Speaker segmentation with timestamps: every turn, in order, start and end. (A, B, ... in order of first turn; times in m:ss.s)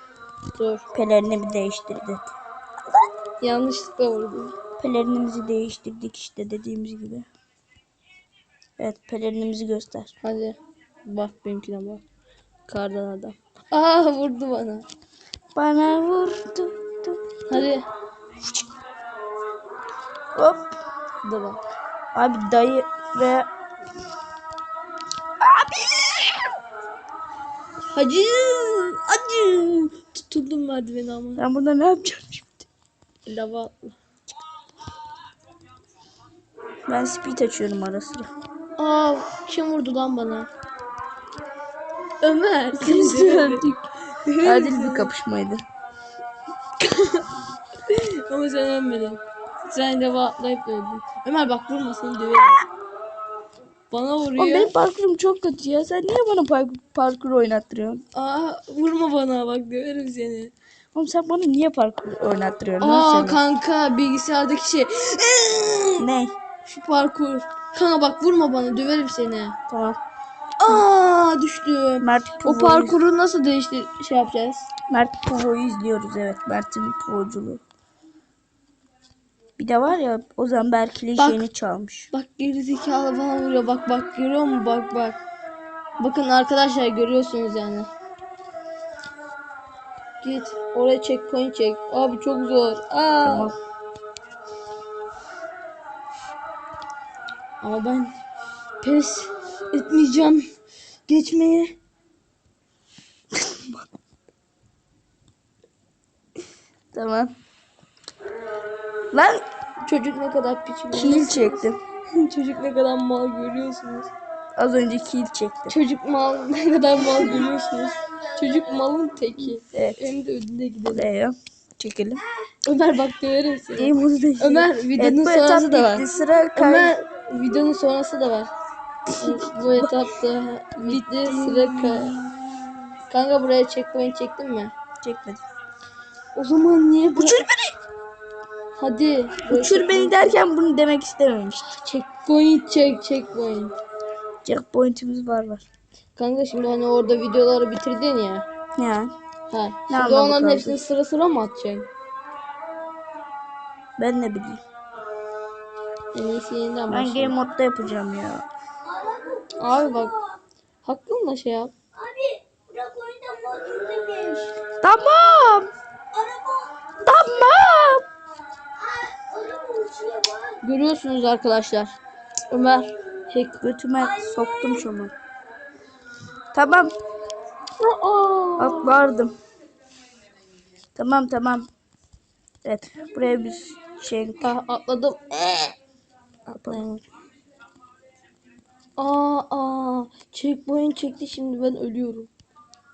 0:00.5-0:00.8 A
0:00.9-0:02.3 B
0:03.4-0:04.6 A
0:04.8-0:07.3 B
0:08.8-0:10.1 B
0:10.2-0:12.0 A
0:12.7-0:14.8 A
0:15.5-0:17.7 B
0:17.5-0:17.8 A
0:20.3-0:20.8 B
0:21.2-0:21.6 A
0:22.1-0:23.5 B
0:25.4-0:26.5 B
0:27.9-0:31.4 A
0:31.4-0:32.7 B
0:33.2-0:33.9 A
0:36.9-0:38.3 B
0:38.8-0:40.5 A
0:42.2-0:43.7 A
0:42.7-0:43.9 B
0:44.3-0:45.1 A
0:44.4-0:45.6 B
0:46.8-0:47.2 A
0:47.9-0:52.6 A
0:53.9-0:54.7 A
0:54.4-0:58.0 B
0:58.1-1:00.5 A
1:00.9-1:03.4 B
1:02.8-1:06.0 A
1:06.0-1:06.3 B
1:06.6-1:09.6 A
1:09.7-1:10.0 B
1:10.6-1:14.7 A
1:12.0-1:13.0 B
1:14.9-1:17.6 B
1:19.6-1:22.1 B
1:21.2-1:21.4 A
1:22.1-1:25.2 A
1:26.0-1:27.9 A
1:30.2-1:33.5 A
1:33.2-1:33.6 B
1:37.6-1:38.2 A
1:38.8-1:40.4 A
1:41.1-1:41.7 A
1:43.4-1:43.8 B
1:46.9-1:47.3 B
1:49.1-1:49.4 B
1:49.8-1:54.1 A
1:50.9-1:51.8 B
1:54.6-1:55.7 B
1:55.7-2:01.1 A
1:59.7-2:00.0 B
2:00.9-2:02.2 B
2:02.6-2:08.5 A
2:03.7-2:06.9 B
2:09.2-2:12.2 A
2:09.6-2:09.9 B
2:10.8-2:12.4 B
2:13.1-2:14.7 A
2:15.0-2:15.4 B
2:16.3-2:17.4 A
2:17.2-2:17.7 B
2:18.8-2:20.4 A
2:19.5-2:21.7 B
2:21.8-2:23.7 A
2:24.4-2:25.6 B
2:26.2-2:28.4 A
2:28.8-2:29.1 B
2:29.5-2:31.9 A
2:29.9-2:30.8 B
2:34.0-2:34.6 B
2:36.1-2:37.3 A
2:36.9-2:38.4 B
2:39.6-2:40.2 A
2:40.8-2:41.8 A
2:42.0-2:44.3 C
2:44.8-2:45.7 B
2:47.0-2:48.0 B
2:49.2-2:50.5 C
2:50.6-2:51.9 A
2:52.5-2:53.6 A
2:53.6-2:55.1 B
2:56.5-2:56.9 B
2:57.8-2:59.1 A
2:58.6-2:59.4 B
3:01.0-3:01.7 B
3:02.6-3:04.5 B
3:04.4-3:05.7 A
3:06.5-3:07.0 B
3:09.0-3:12.3 A